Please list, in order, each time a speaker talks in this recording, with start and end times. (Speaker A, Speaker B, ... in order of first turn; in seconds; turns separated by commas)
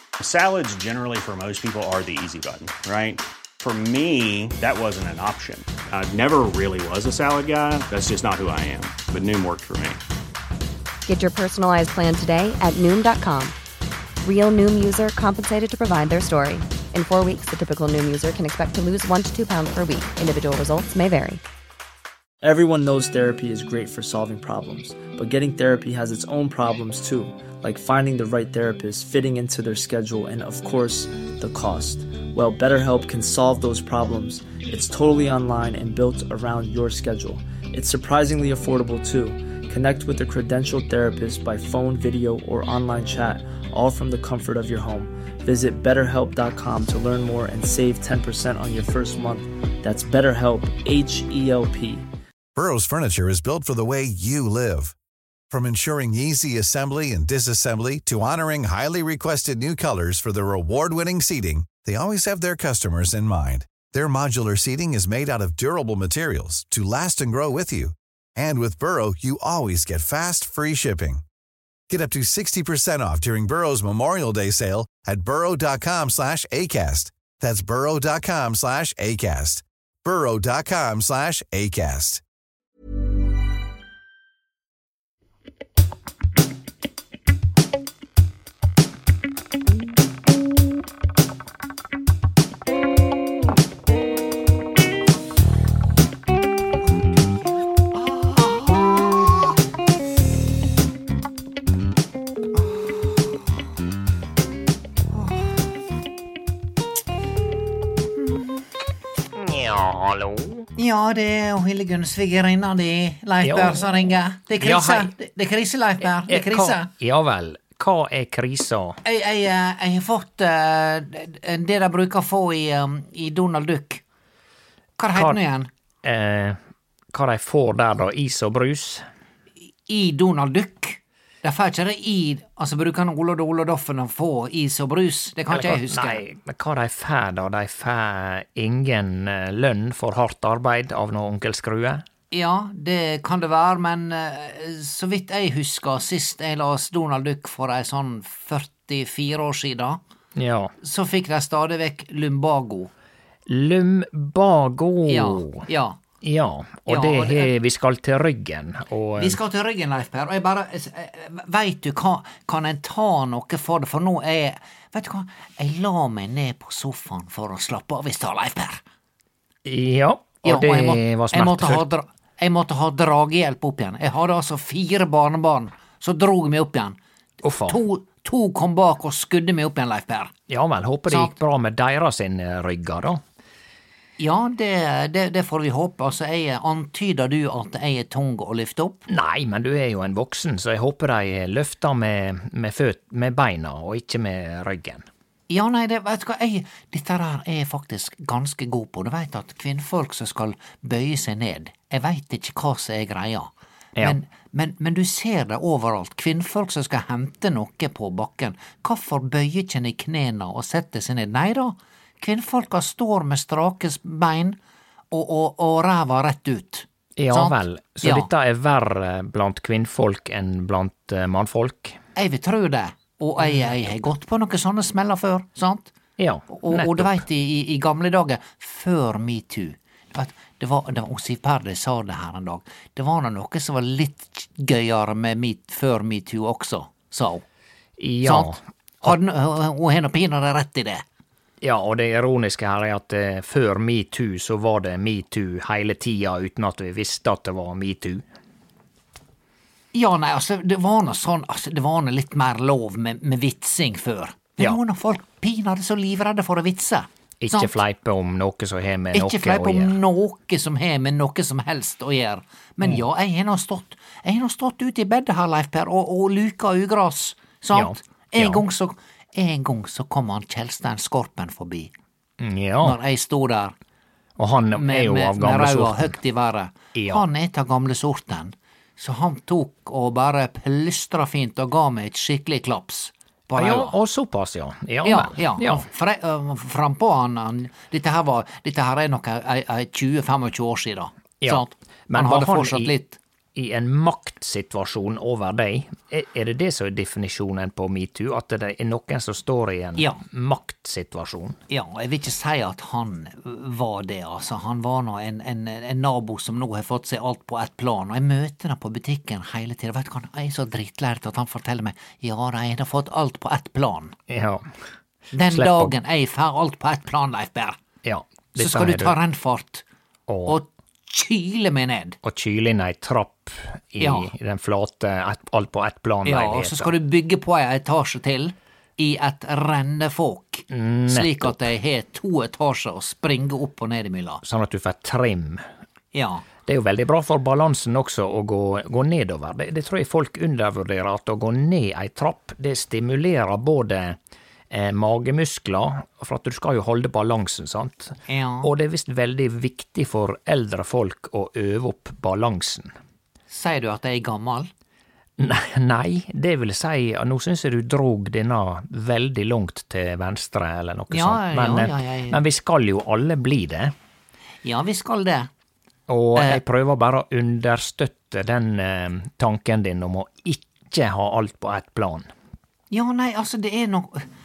Speaker A: 0.2-10.0, Speaker B: 11.1-13.5, Speaker B: 14.2-21.4, Speaker C: 22.4-52.0, Speaker D: 52.5-54.9, Speaker D: 55.5-71.2, Speaker D: 71.9-82.2, Speaker E: 109.3-110.7, Speaker F: 110.8-116.9, Speaker E: 113.4-113.9, Speaker E: 114.6-115.1, Speaker E: 116.2-119.0, Speaker F: 119.0-124.0, Speaker F: 125.0-125.7, Speaker E: 126.0-126.6, Speaker E: 127.1-129.0, Speaker F: 129.9-136.2, Speaker E: 135.5-142.0, Speaker F: 142.3-150.0, Speaker E: 150.3-150.7, Speaker F: 150.8-152.9, Speaker E: 153.5-155.6, Speaker F: 155.1-156.0, Speaker E: 156.2-159.4, Speaker F: 156.9-157.5, Speaker F: 159.2-168.8, Speaker E: 169.6-171.9, Speaker F: 170.4-177.0, Speaker E: 177.4-177.8, Speaker F: 177.6-180.3, Speaker E: 180.5-183.2, Speaker F: 181.1-181.3, Speaker F: 184.2-189.0, Speaker E: 189.1-195.0, Speaker F: 195.5-214.6, Speaker F: 215.1-218.3, Speaker E: 217.2-222.0, Speaker F: 222.2-225.9, Speaker E: 226.2-227.2, Speaker F: 226.5-237.4, Speaker E: 238.0-239.1, Speaker F: 238.2-241.0, Speaker E: 241.6-248.2, Speaker F: 249.9-257.8, Speaker E: 257.4-259.9, Speaker F: 259.1-271.9, Speaker E: 267.7-268.6, Speaker E: 272.4-273.0, Speaker F: 272.8-273.7, Speaker E: 274.4-276.2, Speaker F: 274.8-283.9, Speaker E: 276.9-277.2, Speaker E: 283.6-285.8, Speaker F: 285.0-293.2, Speaker E: 291.4-292.9, Speaker E: 293.6-301.6, Speaker F: 301.7-314.1, Speaker E: 314.3-314.7, Speaker F: 315.3-317.8, Speaker E: 315.5-315.9, Speaker E: 318.0-319.1, Speaker F: 318.6-319.8, Speaker E: 320.3-320.6, Speaker F: 320.5-322.2, Speaker E: 322.2-326.9, Speaker F: 324.0-324.3, Speaker F: 326.2-334.4, Speaker E: 330.7-331.6, Speaker E: 334.4-335.6, Speaker F: 336.1-336.4, Speaker E: 336.6-344.2, Speaker E: 344.7-352.9, Speaker F: 348.3-348.7, Speaker F: 353.5-354.7, Speaker E: 355.4-363.9, Speaker F: 361.1-362.4, Speaker F: 364.6-365.5, Speaker E: 366.1-372.3, Speaker F: 372.9-374.3